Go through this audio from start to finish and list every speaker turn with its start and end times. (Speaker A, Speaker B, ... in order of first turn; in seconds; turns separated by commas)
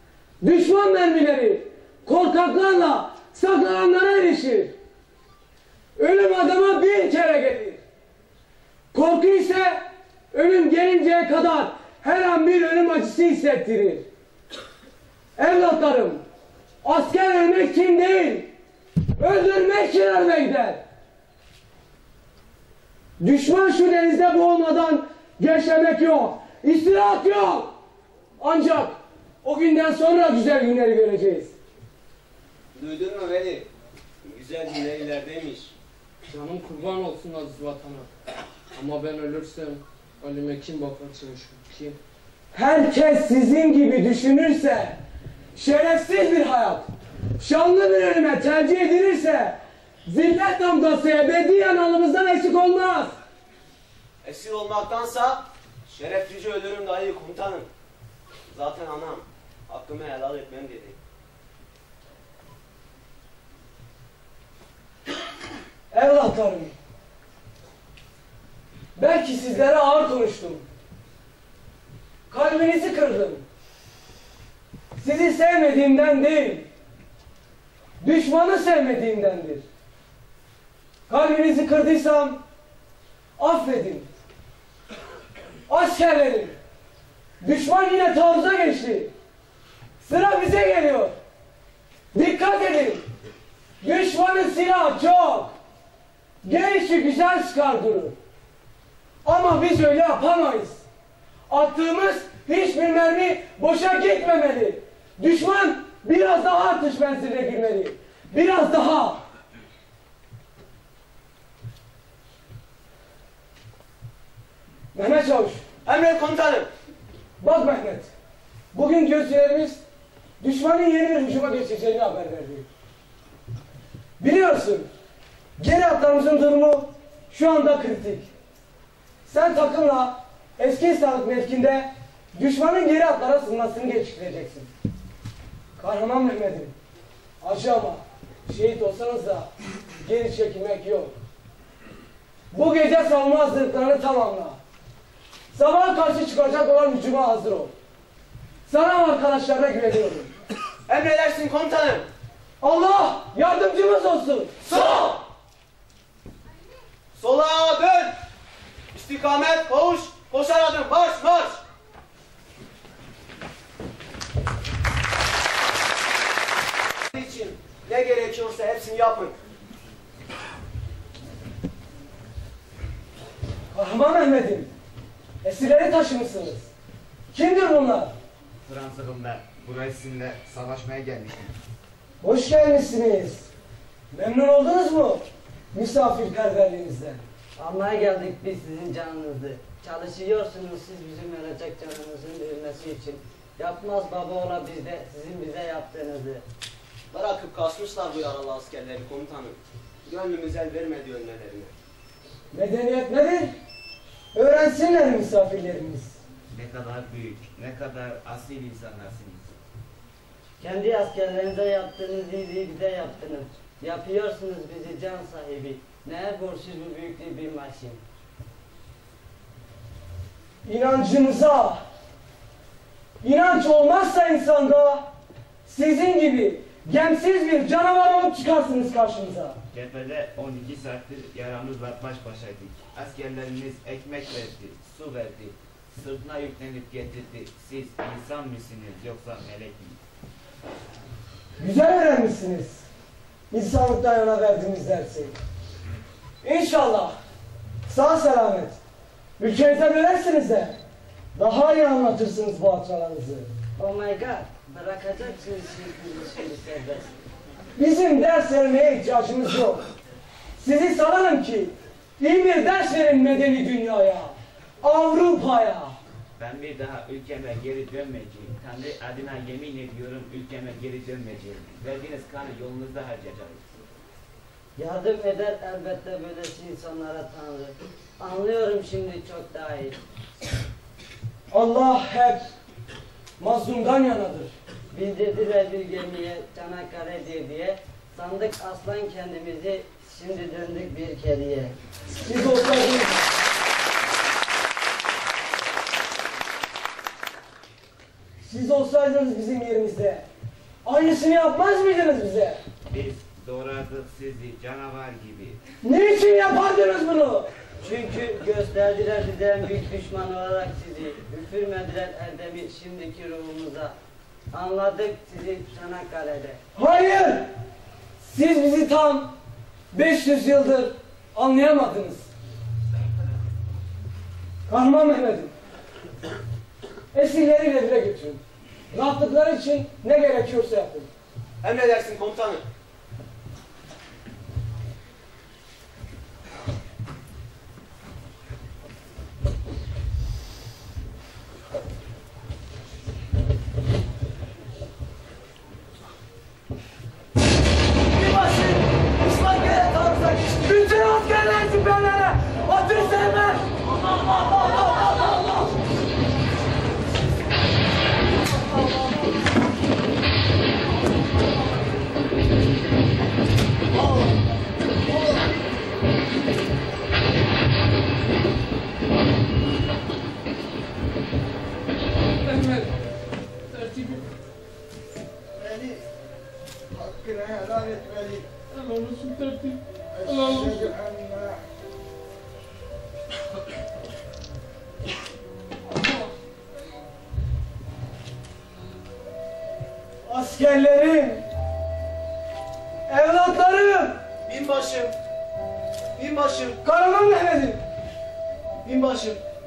Speaker A: 0.4-4.7, Speaker A: 6.0-7.8, Speaker A: 8.9-14.1, Speaker A: 15.4-16.2, Speaker A: 16.8-18.5, Speaker A: 19.2-20.8, Speaker A: 23.2-27.7, Speaker A: 28.4-31.5, Speaker B: 32.7-33.7, Speaker B: 34.2-35.7, Speaker C: 36.3-38.0, Speaker C: 38.8-42.0, Speaker A: 42.5-45.0, Speaker A: 45.5-53.1, Speaker B: 54.2-57.7, Speaker B: 58.5-61.0, Speaker A: 65.9-66.7, Speaker A: 69.0-70.6, Speaker A: 72.3-73.4, Speaker A: 75.0-76.7, Speaker A: 78.0-79.6, Speaker A: 81.1-82.4, Speaker A: 83.4-84.1, Speaker A: 85.7-86.5, Speaker A: 87.4-89.1, Speaker A: 90.0-91.1, Speaker A: 92.1-93.0, Speaker A: 93.8-95.5, Speaker A: 96.4-98.2, Speaker A: 99.2-100.8, Speaker A: 101.5-109.2, Speaker A: 114.9-115.6, Speaker B: 115.8-116.7, Speaker A: 117.4-118.1, Speaker A: 118.7-119.8, Speaker A: 120.4-122.7, Speaker A: 124.2-124.9, Speaker A: 125.6-128.3, Speaker A: 129.2-134.7, Speaker A: 135.8-136.8, Speaker A: 137.4-141.1, Speaker A: 142.5-144.6, Speaker A: 145.5-147.7, Speaker A: 148.7-150.3, Speaker B: 150.9-152.1, Speaker A: 152.6-154.6, Speaker B: 154.7-155.2, Speaker B: 157.2-158.1, Speaker B: 158.9-161.6, Speaker B: 167.1-169.3, Speaker A: 173.7-174.7, Speaker A: 175.4-176.7, Speaker A: 177.3-178.1, Speaker D: 178.6-181.6, Speaker A: 182.2-183.5, Speaker A: 184.1-187.2, Speaker E: 187.6-196.4, Speaker B: 197.1-201.7, Speaker A: 202.5-203.5, Speaker A: 204.3-206.2, Speaker D: 206.5-209.5, Speaker E: 210.6-218.0, Speaker A: 220.6-221.8, Speaker A: 223.2-225.1, Speaker A: 225.6-229.6, Speaker D: 229.7-240.0, Speaker A: 241.6-242.8, Speaker A: 243.5-245.3, Speaker A: 246.4-247.1, Speaker A: 247.9-248.8, Speaker A: 249.4-250.8, Speaker A: 251.3-253.5, Speaker E: 253.8-257.1, Speaker A: 257.8-259.8, Speaker A: 260.6-265.9, Speaker D: 266.4-273.6, Speaker E: 274.8-280.0, Speaker A: 281.5-282.5, Speaker A: 283.4-284.5, Speaker E: 284.9-291.8, Speaker A: 292.1-293.2, Speaker A: 298.4-300.2, Speaker A: 300.8-302.6, Speaker D: 302.9-305.6, Speaker A: 305.8-307.5, Speaker E: 307.8-313.9, Speaker E: 314.5-316.6, Speaker A: 316.8-317.5, Speaker A: 318.2-319.3, Speaker A: 319.9-322.3, Speaker A: 324.7-325.5, Speaker A: 327.1-328.4, Speaker A: 328.9-331.1, Speaker B: 331.6-332.6, Speaker A: 348.1-353.8, Speaker A: 354.3-355.2, Speaker A: 373.8-374.1, Speaker A: 378.8-379.7, Speaker A: 390.2-391.4, Speaker A: 393.1-394.2, Speaker B: 394.4-395.1, Speaker B: 396.1-396.8, Speaker A: 396.8-397.8, Speaker B: 398.8-399.4